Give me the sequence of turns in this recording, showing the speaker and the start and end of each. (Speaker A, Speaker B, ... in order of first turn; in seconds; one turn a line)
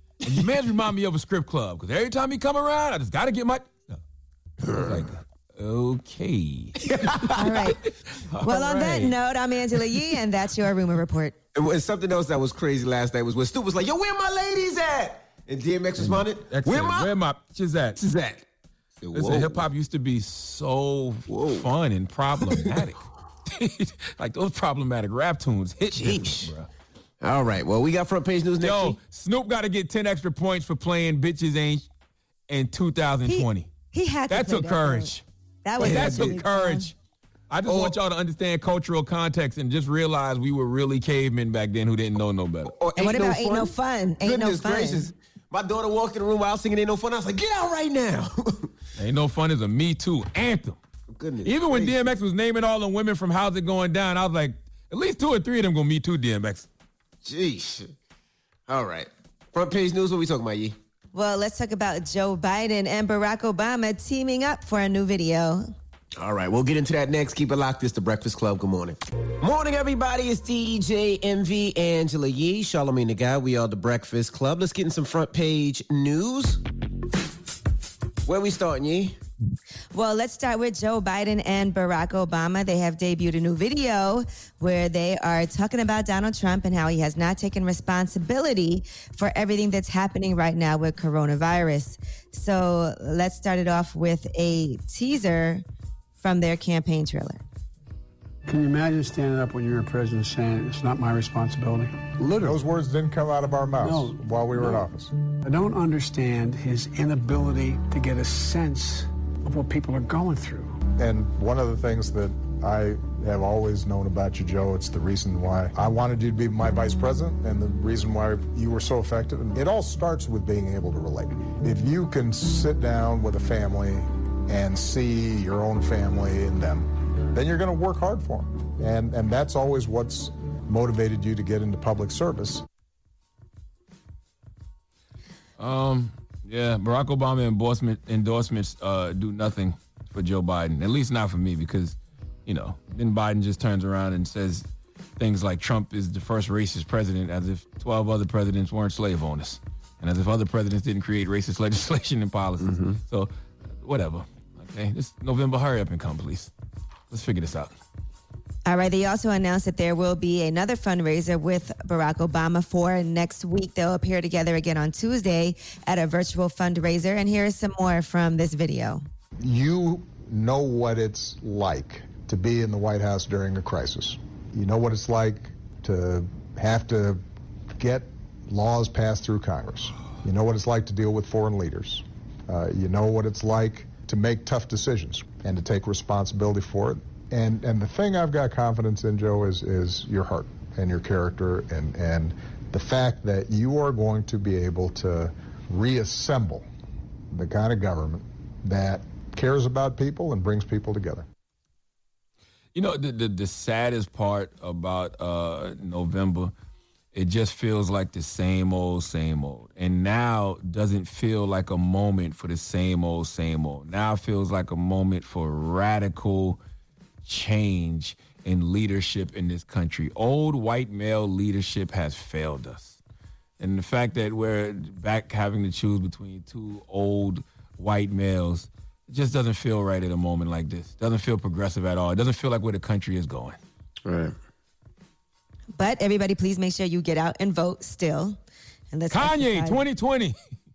Speaker A: 0.2-4.0
Speaker B: 4.6-5.1
Speaker A: 4.7-7.6
Speaker B: 6.9-7.5
Speaker C: 7.4-7.8
Speaker A: 8.1-9.2
Speaker C: 8.4-11.3
Speaker B: 11.6-17.1
Speaker A: 16.0-18.0
Speaker B: 18.0-18.4
Speaker B: 19.0-19.6
Speaker A: 19.1-26.7
Speaker B: 21.3-21.6
Speaker B: 25.9-26.5
Speaker B: 27.2-29.0
Speaker A: 28.6-31.9
Speaker A: 32.5-33.7
Speaker C: 33.3-35.1
Speaker A: 34.3-35.2
Speaker C: 35.6-36.9
Speaker A: 35.8-36.9
Speaker B: 35.8-36.4
Speaker A: 37.5-42.7
Speaker B: 37.7-37.9
Speaker B: 42.6-48.7
Speaker C: 43.0-45.0
Speaker A: 49.0-50.8
Speaker B: 51.1-52.0
Speaker A: 51.4-56.7
Speaker B: 57.2-57.9
Speaker B: 58.7-60.8
Speaker C: 61.1-65.7
Speaker B: 66.2-76.6
Speaker B: 78.3-79.2
Speaker C: 79.9-95.6
Speaker C: 96.2-97.4
Speaker D: 98.5-102.6
Speaker E: 102.4-105.1
Speaker D: 103.8-104.9
Speaker D: 105.4-110.8
Speaker E: 111.0-132.7
Speaker A: 135.6-153.3
Speaker B: 152.6-153.0
Speaker A: 153.8-156.5
Speaker A: 157.1-157.8
Speaker C: 158.7-169.1
Speaker E: 169.4-177.2
Speaker E: 177.8-196.7
Speaker E: 197.3-201.3
Speaker A: 202.8-206.5
Speaker A: 207.1-216.6
Speaker A: 217.2-223.0
Speaker A: 223.6-233.6
Speaker B: 234.1-234.3
Speaker C: 235.8-238.4
Speaker C: 238.9-239.8
Speaker A: 239.1-240.3